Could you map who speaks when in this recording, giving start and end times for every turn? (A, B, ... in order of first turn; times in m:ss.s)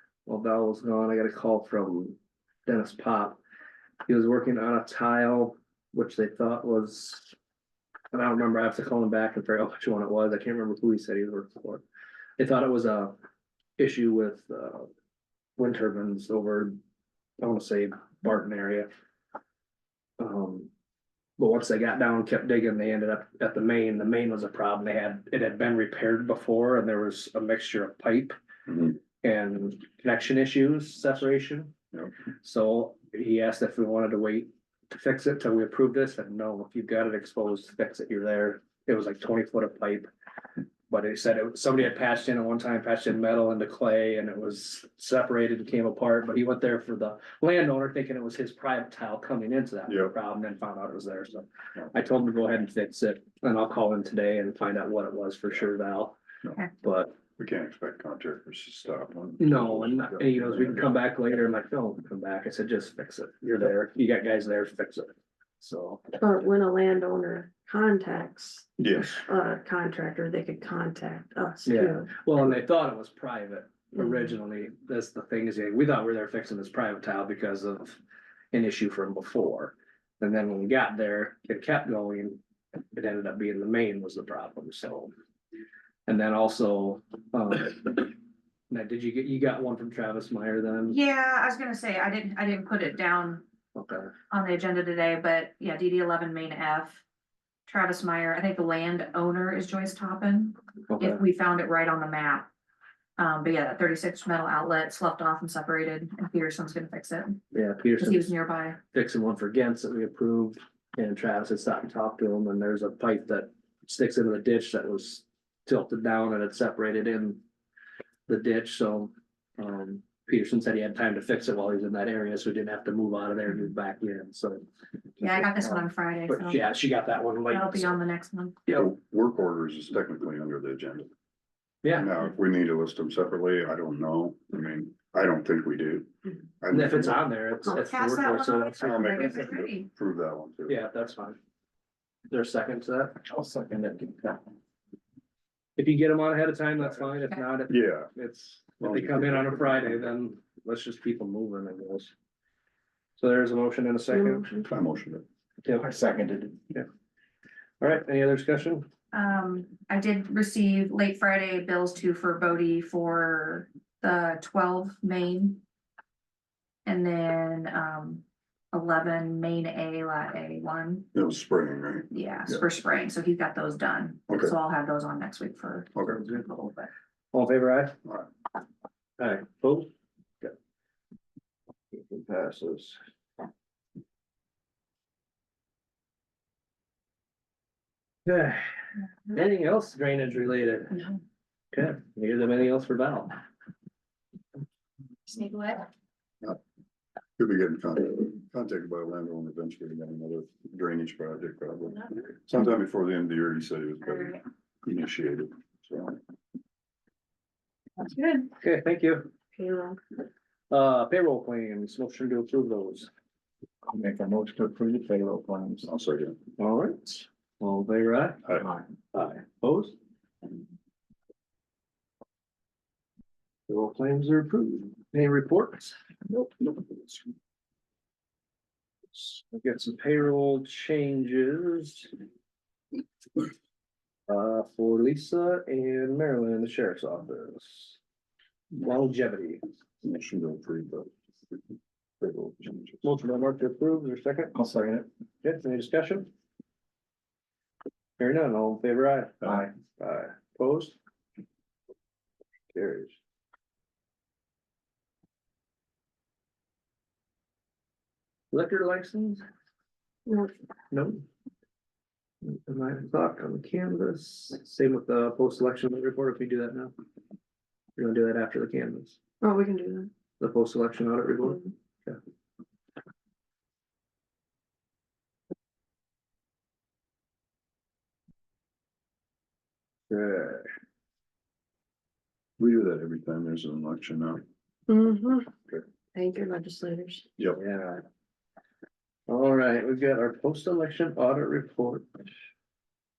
0:00.2-0:03.4 A
0:04.0-0:07.3 A
0:08.1-0:11.8 A
0:12.4-0:13.2 A
0:13.8-0:14.9 A
0:15.6-0:16.8 A
0:17.4-0:18.9 A
0:20.2-0:20.7 A
0:21.4-0:28.4 A
0:28.7-0:29.0 B
0:29.2-0:31.7 A
0:32.4-0:40.1 A
0:40.9-0:56.2 A
0:49.9-0:50.1 B
0:56.8-0:57.1 A
0:57.4-1:00.9 B
0:59.4-1:06.0 A
1:06.2-1:12.1 C
1:08.8-1:09.2 B
1:11.6-1:18.0 A
1:18.5-1:22.4 A
1:22.9-1:25.1 A
1:26.1-1:28.1 A
1:28.7-1:31.0 A
1:30.9-1:33.4 D
1:33.7-1:34.1 A
1:34.3-1:37.0 D
1:37.7-1:42.5 D
1:40.9-1:41.2 A
1:43.2-1:47.4 D
1:47.5-1:48.3 A
1:48.0-1:48.8 D
1:48.9-1:57.4 A
1:58.3-2:04.6 A
2:05.2-2:06.6 D
2:05.2-2:05.7 A
2:06.3-2:08.0 A
2:07.5-2:08.6 D
2:08.7-2:11.1 B
2:11.8-2:12.1 A
2:11.9-2:17.2 B
2:16.7-2:19.3 A
2:17.6-2:19.9 D
2:18.8-2:20.8 B
2:20.7-2:21.4 A
2:22.3-2:23.2 A
2:25.8-2:32.1 A
2:27.7-2:28.1 B
2:28.7-2:30.1 B
2:33.2-2:34.4 A
2:34.1-2:34.7 C
2:34.6-2:35.2 B
2:35.6-2:35.9 A
2:35.9-2:36.5 E
2:37.8-2:38.9 A
2:39.1-2:45.6 D
2:46.8-2:51.1 D
2:51.1-2:52.6 B
2:52.1-2:56.9 D
2:56.0-2:56.2 B
2:57.3-2:58.0 A
2:59.2-2:59.9 A
3:01.9-3:03.0 A
3:08.2-3:08.7 A
3:09.2-3:11.1 A
3:11.7-3:13.4 A
3:15.3-3:15.9 D
3:17.4-3:26.2 B
3:24.1-3:24.4 D
3:28.6-3:29.3 A
3:29.5-3:30.0 C
3:30.7-3:33.1 A
3:34.1-3:35.8 E
3:35.9-3:36.4 B
3:36.6-3:38.5 A
3:39.1-3:39.9 A
3:43.7-3:46.0 A
3:49.1-3:52.1 A
3:54.3-3:58.0 A
3:58.7-3:59.6 A
4:00.0-4:01.1 B
4:02.2-4:03.0 B
4:03.0-4:04.6 A
4:04.6-4:05.0 E
4:05.4-4:06.3 A
4:08.2-4:11.0 A
4:12.7-4:13.1 A
4:18.5-4:19.4 A
4:20.2-4:20.5 C
4:20.9-4:21.2 A
4:22.4-4:26.9 A
4:28.0-4:29.2 A
4:29.4-4:30.1 C
4:30.4-4:32.2 A
4:40.1-4:40.7 A
4:42.6-4:44.4 B
4:44.9-4:45.5 C
4:46.1-4:47.2 C
4:47.6-4:48.0 A
4:49.3-4:52.2 A